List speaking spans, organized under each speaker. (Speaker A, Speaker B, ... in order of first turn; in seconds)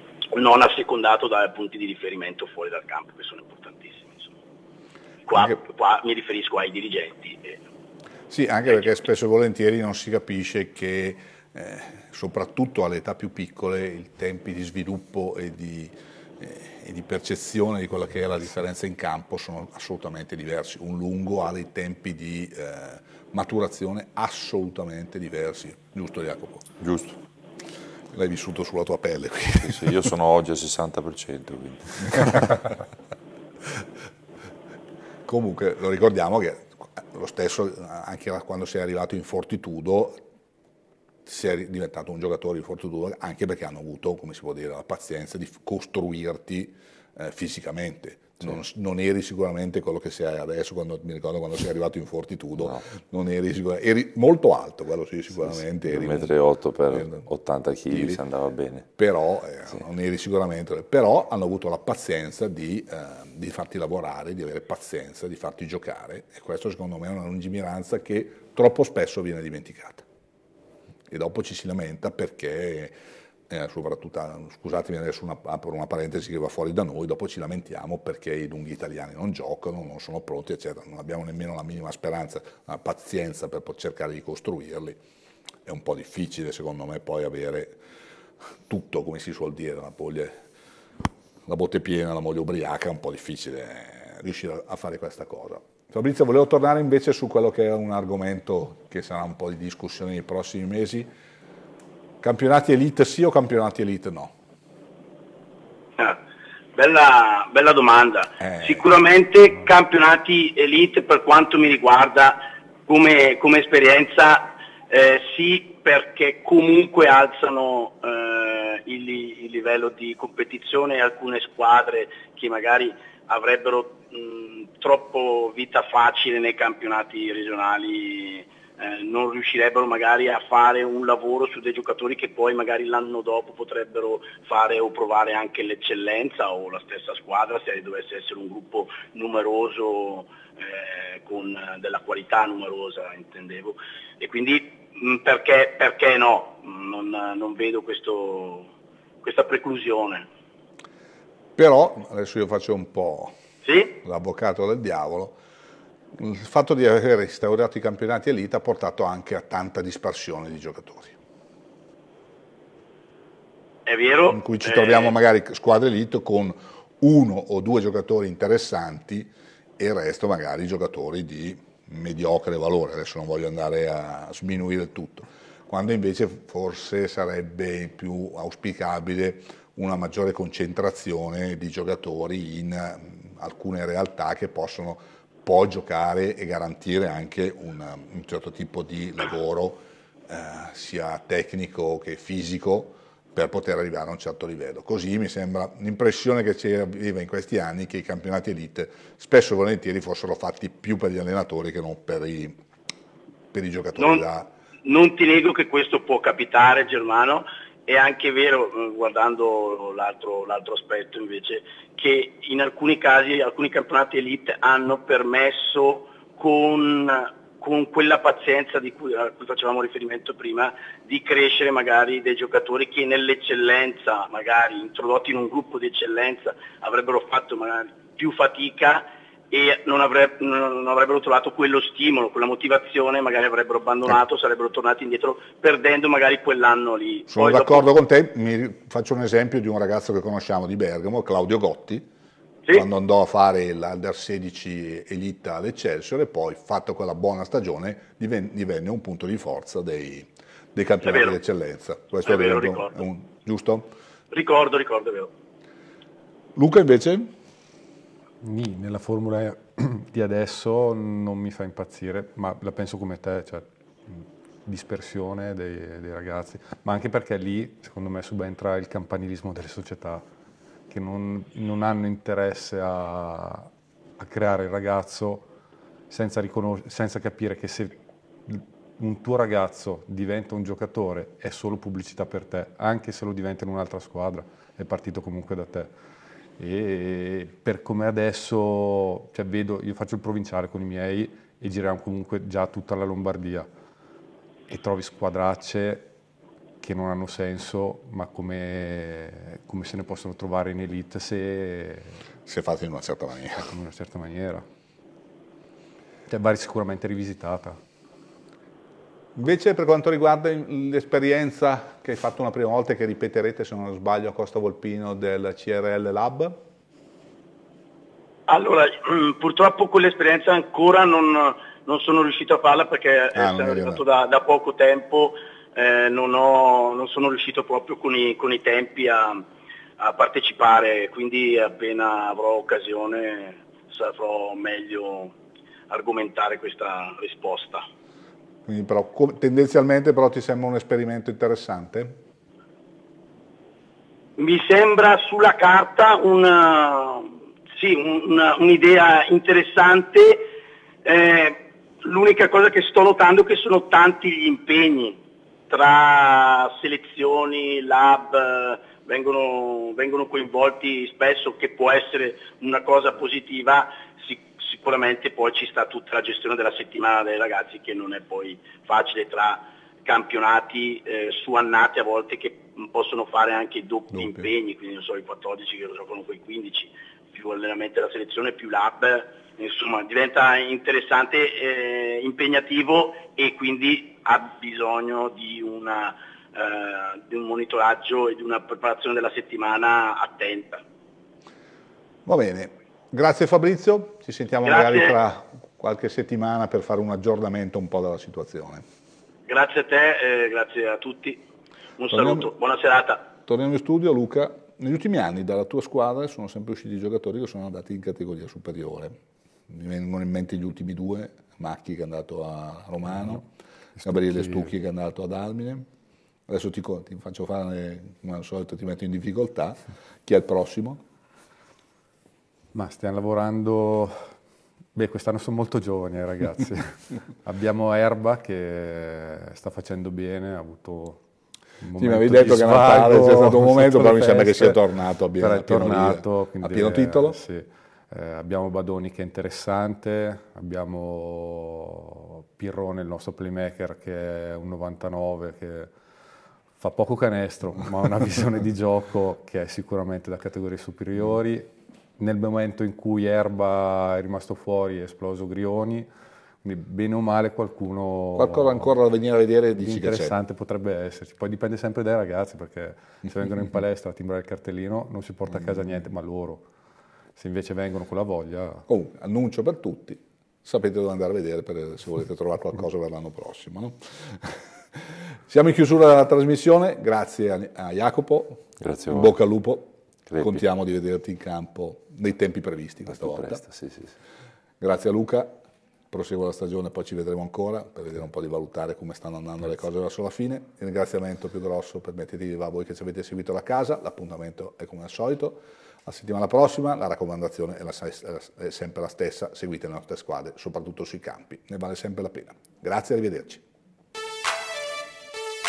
Speaker A: 0.3-4.3, 5.2-7.6, 106.7-148.7, 149.2-150.3, 153.6-153.9, 163.8-165.1, 203.9-204.2, 204.8-237.9, 251.0-251.4, 252.2-252.9, 254.3-255.3, 318.5-329.4, 330.0-335.3, 335.9-337.9, 344.4-350.5, 351.0-355.2, 355.7-390.8, 394.6-395.1, 399.5-401.4, 402.0-403.2
Speaker B: 8.3-26.7, 28.1-30.0, 35.2-40.2, 41.2-56.3, 56.9-57.2, 57.9-58.2, 58.9-70.0, 71.1-72.9, 73.5-85.0, 85.6-87.8, 88.7-90.4, 91.5-101.1, 102.2-104.3, 108.4-108.9, 151.6-153.4, 154.0-155.4, 156.2-161.2, 164.3-202.6, 203.5-204.5, 237.3-242.1, 242.7-253.9, 256.5-257.3, 302.4-303.7, 309.4-316.6, 323.3-324.0, 338.7-342.1, 374.2-374.5, 392.2-398.8, 402.1-402.5, 403.4-409.1, 409.7-413.4, 414.0-415.9, 416.5-421.0, 432.0-437.4, 458.4-460.4, 468.9-483.6, 484.8-485.6, 486.1-503.6
Speaker C: 26.8-27.2, 29.6-32.7, 55.9-58.9, 478.8-479.3, 480.3-480.6, 483.2-484.1
Speaker D: 258.4-270.2, 270.9-275.4, 276.1-277.9, 278.5-285.9, 286.6-293.7, 294.7-296.1, 296.8-302.2, 303.6-304.6, 306.3-307.8, 414.0-414.6, 422.7-424.2, 424.9-431.2, 431.8-434.8, 435.4-445.9, 446.8-456.1, 456.6-458.9, 459.8-466.6, 467.4-468.9